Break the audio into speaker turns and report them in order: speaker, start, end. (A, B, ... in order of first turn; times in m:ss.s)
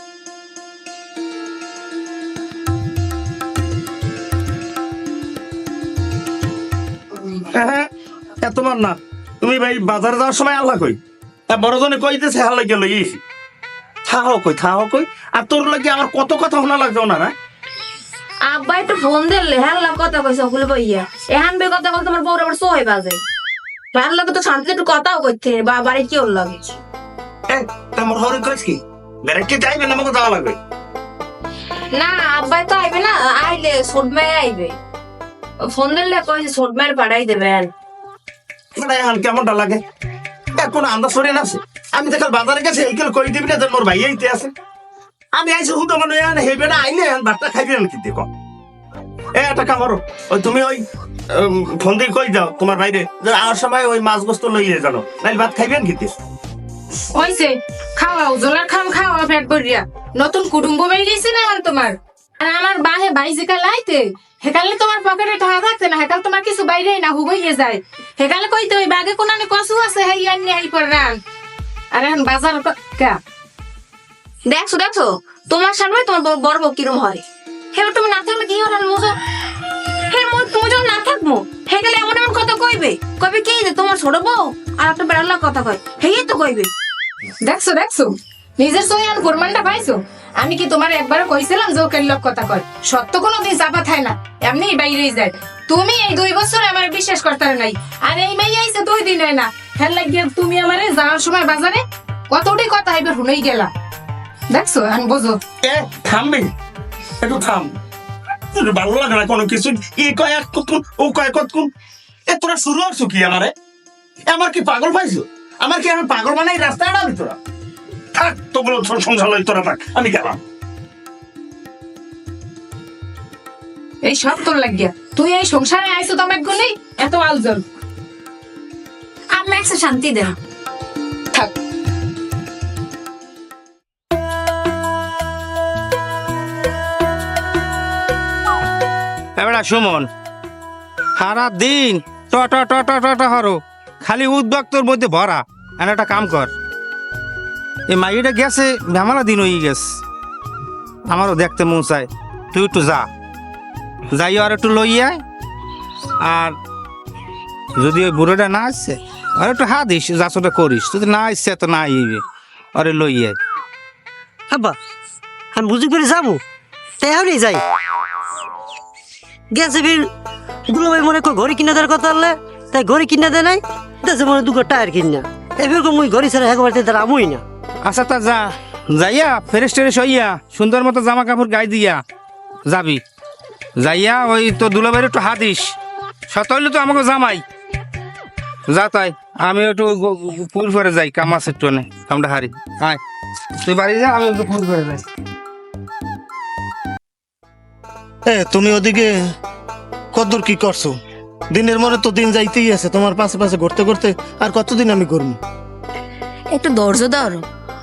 0:07.2-0:07.9 A
0:08.4-0:13.2 A
0:14.1-0:17.3 A
0:18.4-0:23.2 B
0:23.9-0:26.6 B
0:27.5-0:30.6 A
0:31.9-0:34.8 B
0:35.6-0:37.7 B
0:38.8-0:39.8 A
0:40.5-0:44.5 A
0:45.3-0:48.3 A
0:49.4-0:56.1 A
0:57.1-1:11.2 C
1:11.9-1:13.2 C
1:14.5-1:17.2 B
1:17.7-1:19.2 B
1:20.1-1:26.7 B
1:27.4-1:43.7 C
1:44.5-1:45.4 C
1:45.6-1:46.5 A
1:47.2-1:47.7 A
1:48.5-1:51.7 A
1:52.3-1:53.5 A
1:54.3-1:57.4 A
1:58.1-2:00.4 A
2:04.0-2:07.6 C
2:09.3-2:10.3 C
2:19.4-2:20.0 D
2:21.2-2:26.5 D
2:27.9-2:29.8 D
2:31.1-2:33.0 D
2:34.1-2:35.2 D
2:36.2-2:36.5 D
2:37.8-2:42.2 D
2:42.7-2:43.4 D
2:44.5-2:44.8 E
2:45.5-2:46.4 E
2:47.0-2:47.6 E
2:49.5-2:50.1 E
2:50.7-2:57.4 E
2:57.8-3:02.0 D
3:02.7-3:03.0 D
3:03.8-3:05.8 D
3:06.3-3:07.4 D
3:08.7-3:13.0 D
3:13.6-3:15.0 D
3:18.3-3:19.1 F
3:20.1-3:20.9 F
3:21.5-3:25.4 F
3:26.5-3:27.4 B